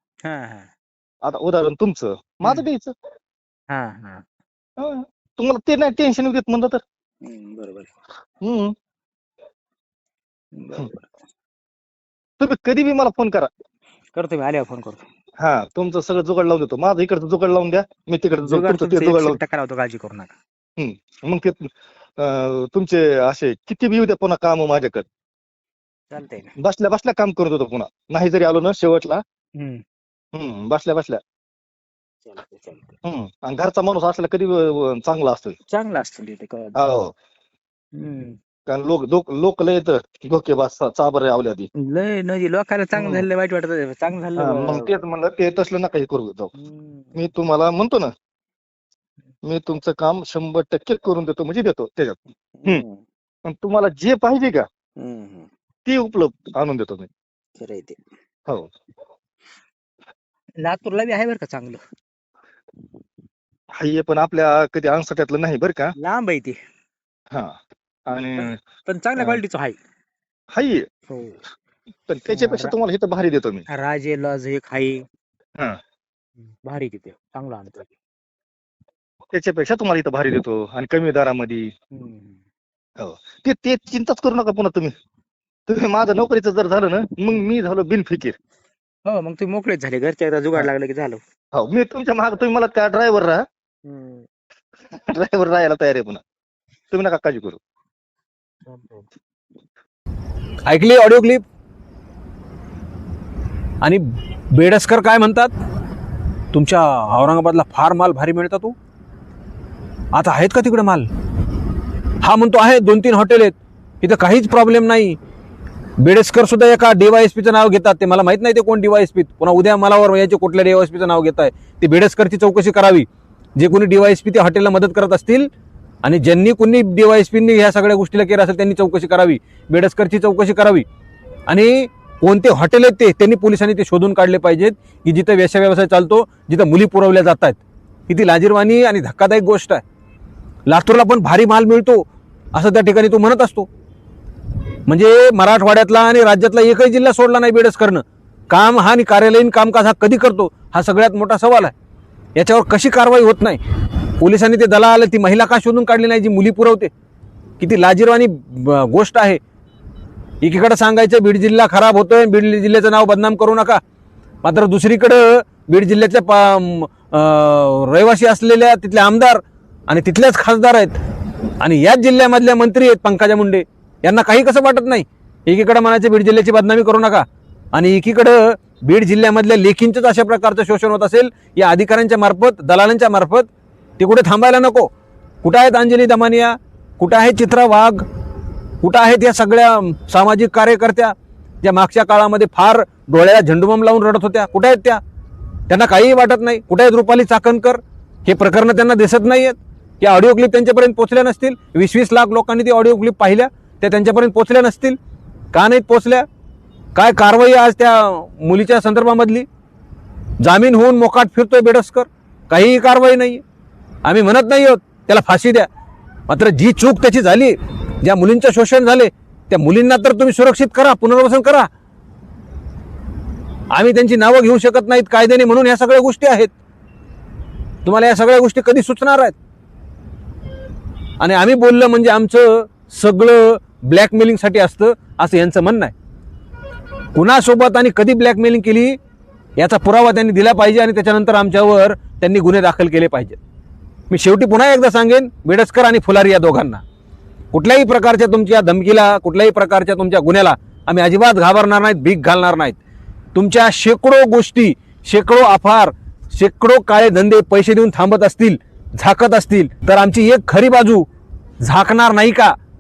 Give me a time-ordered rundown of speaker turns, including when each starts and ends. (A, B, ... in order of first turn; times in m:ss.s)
0:00.2-0:00.7 A
0:01.2-0:02.9 B
0:03.7-0:04.2 A
0:04.8-0:06.8 B
0:07.2-0:07.9 A
0:08.4-0:08.7 B
0:10.6-0:11.1 A
0:12.4-0:13.5 B
0:14.2-0:15.0 A
0:15.4-0:19.4 B
0:18.3-0:20.4 A
0:20.8-0:25.1 B
0:26.1-0:26.6 A
0:26.6-0:29.2 B
0:29.6-0:29.8 A
0:30.3-0:31.2 B
0:32.3-0:32.9 A
0:33.0-0:35.6 B
0:35.7-0:36.8 A
0:36.8-0:37.1 B
0:37.9-0:38.4 A
0:38.7-0:41.7 B
0:41.8-0:44.9 A
0:43.0-0:43.2 B
0:44.4-0:46.5 B
0:46.6-0:47.2 A
0:47.2-0:48.1 B
0:49.4-0:52.8 B
0:52.6-0:53.0 A
0:53.4-0:54.7 B
0:55.0-0:55.5 A
0:55.9-0:57.1 B
0:57.6-0:58.0 A
1:00.6-1:01.8 A
1:03.8-1:06.0 B
1:06.0-1:06.6 A
1:08.1-1:08.6 B
1:08.4-1:09.8 A
1:09.2-1:09.4 B
1:10.5-1:10.9 B
1:11.1-1:11.4 A
1:12.1-1:13.7 B
1:12.3-1:12.7 A
1:13.7-1:15.1 A
1:16.6-1:17.9 A
1:19.3-1:21.7 B
1:21.9-1:22.4 A
1:23.0-1:24.9 B
1:25.7-1:28.4 B
1:29.1-1:31.2 A
1:31.5-1:33.4 B
1:33.8-1:34.3 A
1:34.9-1:36.2 B
1:36.9-1:37.6 B
1:38.7-1:39.1 A
1:40.7-1:41.4 C
1:43.8-1:45.5 C
1:46.5-1:48.8 C
1:50.1-1:51.1 C
1:52.2-1:55.2 C
1:56.0-2:05.5 C
2:06.0-2:10.8 C
2:11.5-2:19.8 C
2:20.7-2:23.7 C
2:24.9-2:31.7 C
2:32.4-2:33.6 C
2:34.2-2:36.9 C
2:37.6-2:39.4 C
2:40.4-2:43.8 C
2:44.4-2:51.0 C
2:51.6-3:03.5 C
3:04.0-3:04.9 C
3:05.4-3:08.0 C
3:08.8-3:15.0 C
3:15.7-3:25.0 C
3:25.5-3:26.2 C
3:27.0-3:29.5 C
3:30.4-3:33.4 C
3:34.0-3:35.7 C
3:36.3-3:41.7 C
3:43.7-3:46.5 C
3:47.8-3:49.4 C
3:51.2-3:55.9 C
3:57.2-3:59.0 C
3:59.6-4:03.4 C
4:04.1-4:06.8 C
4:07.5-4:12.8 C
4:13.4-4:21.1 C
4:21.6-4:22.6 C